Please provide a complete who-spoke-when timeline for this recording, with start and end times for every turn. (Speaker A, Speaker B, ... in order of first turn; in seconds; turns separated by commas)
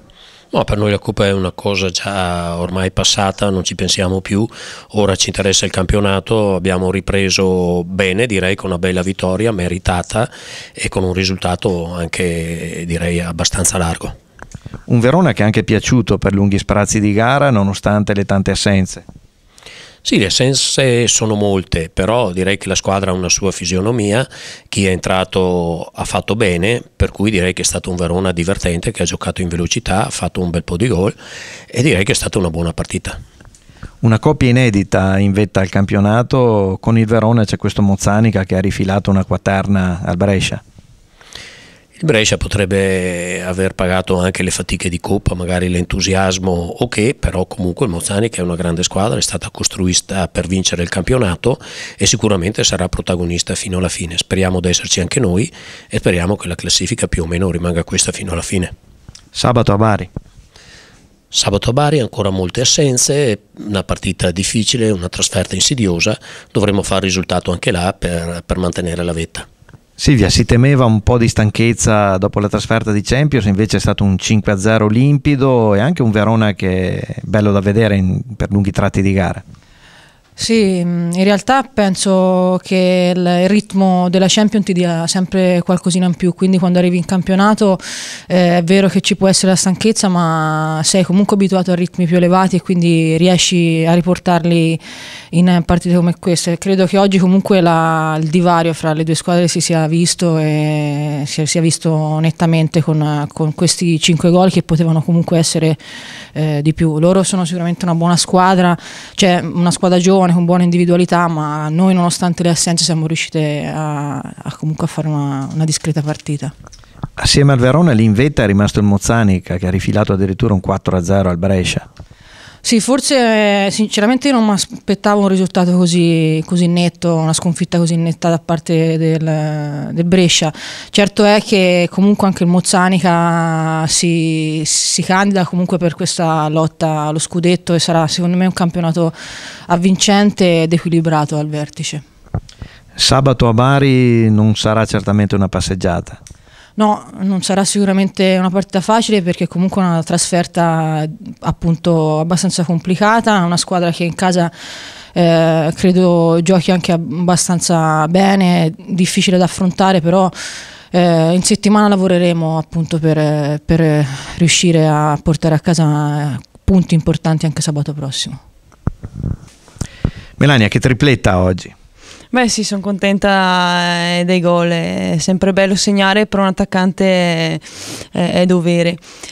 Speaker A: 0.5-14.1, Speaker B: 14.9-19.0, Speaker A: 20.0-31.1, Speaker A: 31.7-33.2, Speaker B: 34.0-40.6, Speaker A: 42.0-58.7, Speaker B: 59.3-60.1, Speaker A: 61.3-69.5, Speaker B: 70.0-79.4, Speaker C: 80.4-94.8, Speaker C: 95.3-105.8, Speaker C: 106.3-116.5, Speaker B: 117.2-121.8, Speaker C: 122.6-139.1, Speaker C: 139.7-142.0, Speaker B: 143.0-146.2, Speaker C: 146.8-154.5, Speaker C: 155.1-160.3, Speaker C: 160.9-168.4, Speaker B: 170.4-171.7, Speaker D: 172.3-179.0